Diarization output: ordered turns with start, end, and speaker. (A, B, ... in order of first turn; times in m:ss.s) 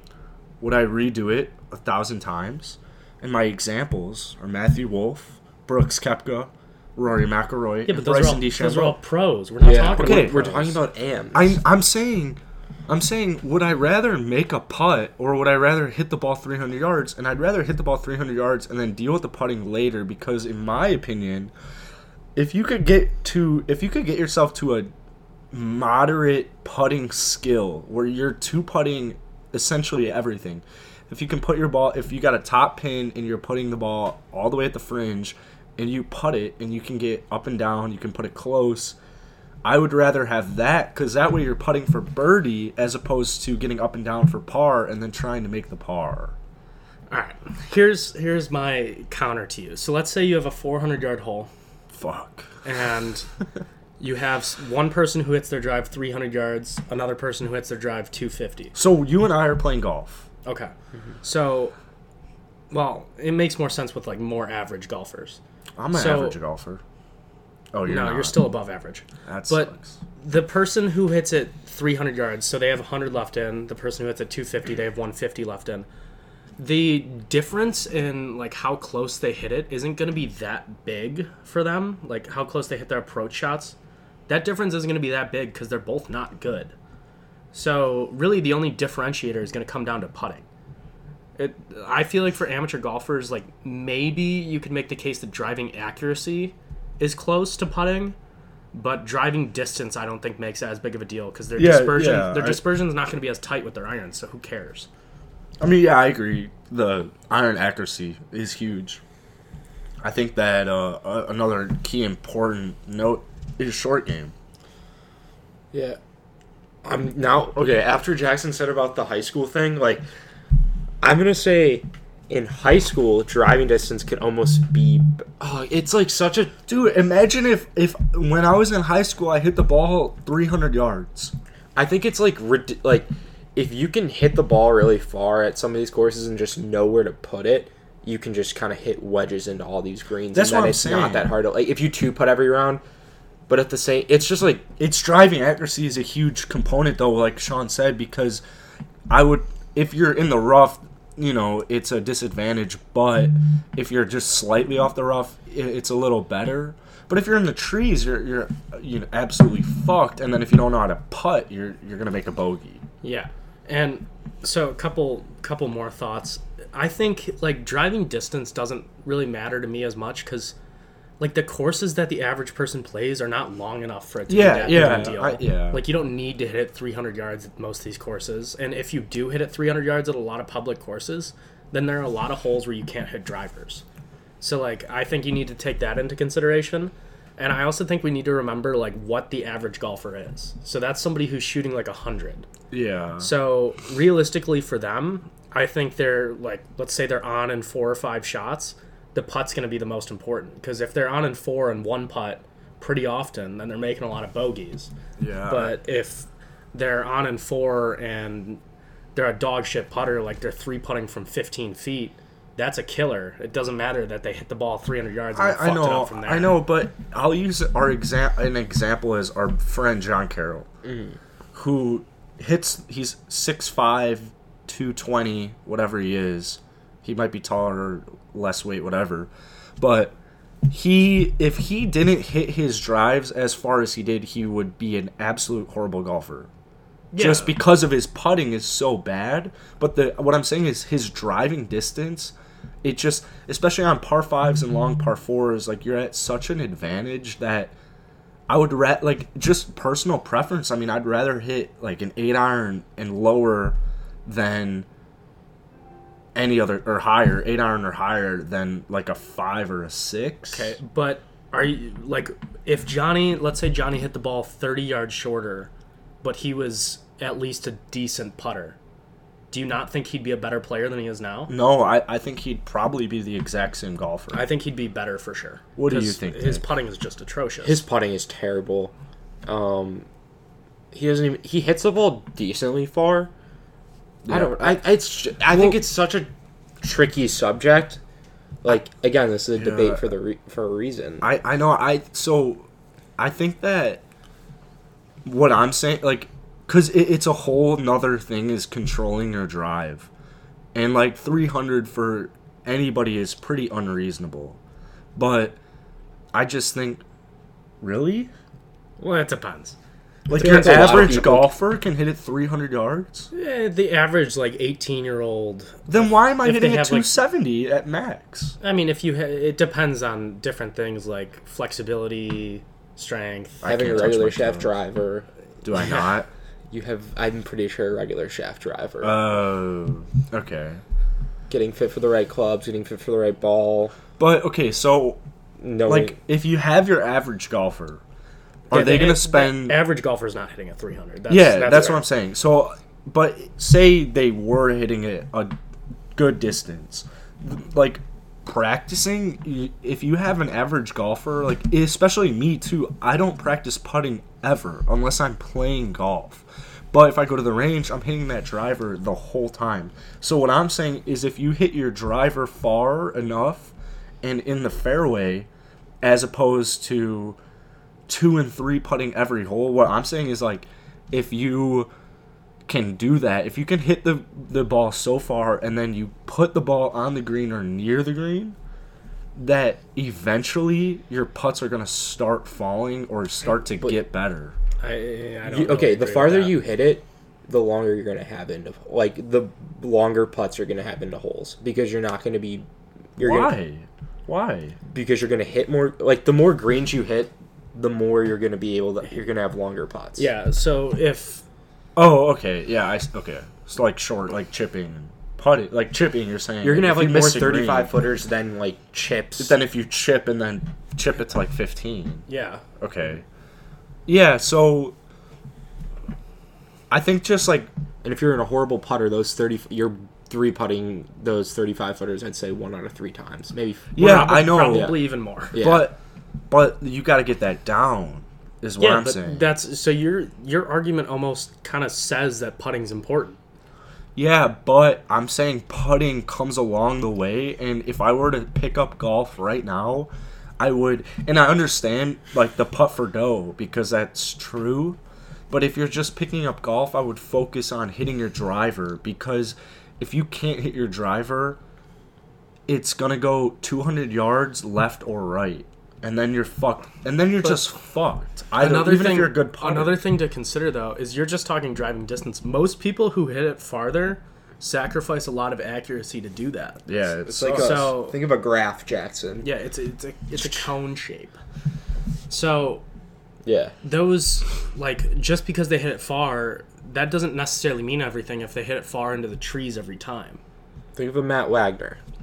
0:00.6-0:09.0 A
0:07.9-0:10.5 B
0:09.6-0:11.6 C
0:09.9-0:10.8 A
0:11.3-0:21.5 A
0:22.4-0:24.9 A
0:25.5-0:39.0 A
0:39.6-0:46.4 A
0:47.1-0:51.5 B
0:51.9-0:52.5 A
0:52.6-0:53.3 B
0:54.0-0:58.8 B
0:58.8-1:00.2 A
1:00.4-1:01.8 B
1:02.7-1:05.4 B
1:05.8-1:06.8 A
1:05.9-1:06.4 B
1:07.7-1:08.4 A
1:07.8-1:15.9 B
1:09.2-1:09.9 A
1:16.6-1:23.8 B
1:24.3-1:26.7 B
1:27.5-1:30.4 B
1:31.4-1:38.2 B
1:38.7-1:44.9 B
1:41.6-1:42.6 A
1:45.6-1:49.0 A
1:50.0-1:54.3 A
1:55.7-1:56.0 C
1:56.8-2:00.0 C
2:01.0-2:06.5 C
2:06.7-2:11.3 A
2:11.8-2:22.8 C
2:20.3-2:21.3 A
2:23.5-2:24.6 C
2:24.8-2:28.4 A
2:29.1-2:42.8 A
2:43.0-2:50.6 B
2:51.2-3:03.8 B
2:54.3-2:55.8 A
2:54.8-2:55.1 C
3:04.4-3:12.5 B
3:12.7-3:13.3 A
3:13.2-3:24.9 B
3:25.2-3:25.8 A
3:25.5-3:28.6 B
3:29.1-3:36.6 B
3:35.4-3:40.6 A
3:40.8-3:41.2 C
3:41.5-3:50.1 A
3:50.7-3:56.5 A
3:57.1-3:57.6 B
3:57.2-4:07.7 A
4:08.5-4:14.9 A
4:16.4-4:20.8 A
4:20.5-4:25.7 B
4:26.2-4:28.8 B
4:29.5-4:31.5 B
4:31.5-4:34.5 A
4:34.3-4:37.8 B
4:35.8-4:36.6 A
4:37.6-4:38.9 C
4:39.5-4:40.1 C
4:40.9-4:43.3 C
4:44.2-4:44.8 A
4:44.3-4:46.3 C
4:45.5-4:45.8 A
4:46.8-4:48.0 C
4:48.6-4:51.2 C
4:49.6-4:50.0 A
4:51.2-4:52.6 A
4:53.2-4:54.0 A
4:55.2-5:00.1 A
5:00.7-5:04.6 A
5:05.2-5:05.6 A
5:06.3-5:07.0 A
5:07.8-5:08.3 A
5:09.0-5:09.8 B
5:10.3-5:13.3 A
5:10.3-5:11.5 C
5:10.4-5:11.0 B
5:13.3-5:17.1 B
5:15.9-5:18.6 A
5:18.6-5:23.7 B
5:23.6-5:24.7 A
5:23.6-5:25.3 C
5:25.6-5:26.3 A
5:25.8-5:26.0 B
5:26.7-5:29.2 C
5:29.0-5:30.8 A
5:31.5-5:34.0 C
5:34.2-5:35.2 A
5:35.6-5:36.2 C
5:35.8-5:38.0 A
5:38.7-5:39.8 A
5:38.7-5:42.0 B
5:41.3-5:45.6 A
5:46.2-6:05.5 A
6:06.0-6:07.4 A
6:08.1-6:11.9 A
6:12.7-6:18.6 A
6:19.4-6:24.5 A
6:24.8-6:26.6 B
6:25.5-6:33.5 C
6:33.2-6:34.8 A
6:34.9-6:40.2 C
6:40.2-6:41.4 B
6:42.0-6:47.9 A
6:46.6-6:49.6 C
6:49.4-6:52.2 A
6:52.3-6:52.6 B
6:52.8-6:53.2 A
6:54.1-6:55.0 A
6:56.9-6:57.7 A
6:58.0-7:04.0 C
7:03.9-7:05.0 A
7:04.0-7:05.6 B
7:04.7-7:05.0 C
7:05.5-7:05.9 C
7:05.5-7:06.0 A
7:06.5-7:09.5 A
7:08.8-7:13.4 B
7:14.2-7:25.0 A
7:25.5-7:31.6 A
7:32.7-7:40.0 A
7:37.4-7:37.7 B
7:38.6-7:46.8 B
7:46.9-7:47.9 A
7:47.3-7:49.5 C
7:47.5-7:48.2 B
7:49.4-7:51.4 B
7:50.4-7:50.6 C
7:52.3-7:52.8 B
7:53.4-7:53.7 C
7:53.8-8:00.4 B
8:01.0-8:02.0 C